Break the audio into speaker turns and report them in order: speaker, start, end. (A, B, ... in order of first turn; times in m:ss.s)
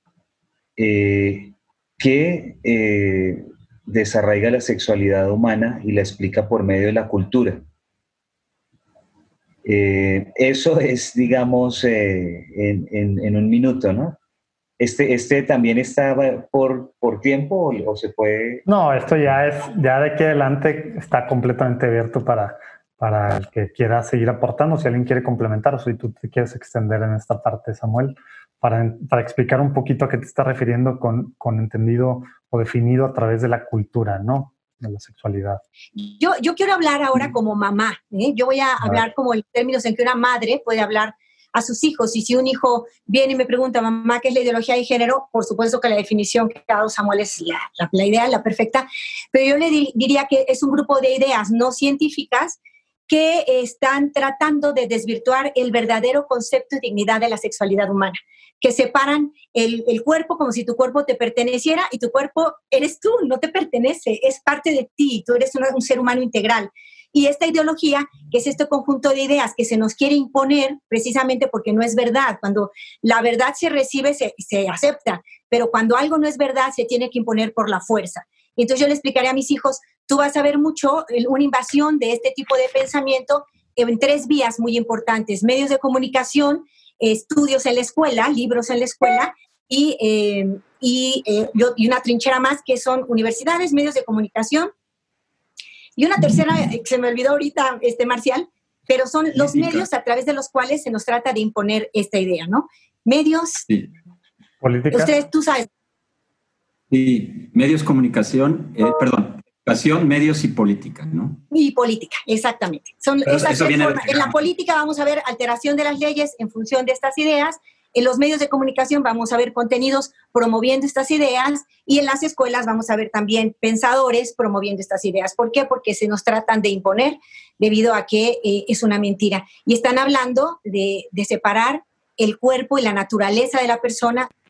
0:00.8-0:07.6 A
0:09.6-0:14.2 A
0:14.8-0:18.6 A
0:18.7-0:35.6 B
0:36.0-1:34.7 C
1:36.0-1:43.7 C
1:39.4-1:39.8 D
1:44.6-1:45.2 B
1:44.9-1:45.7 C
1:46.9-1:51.4 D
1:51.5-2:14.3 C
1:53.3-1:54.4 D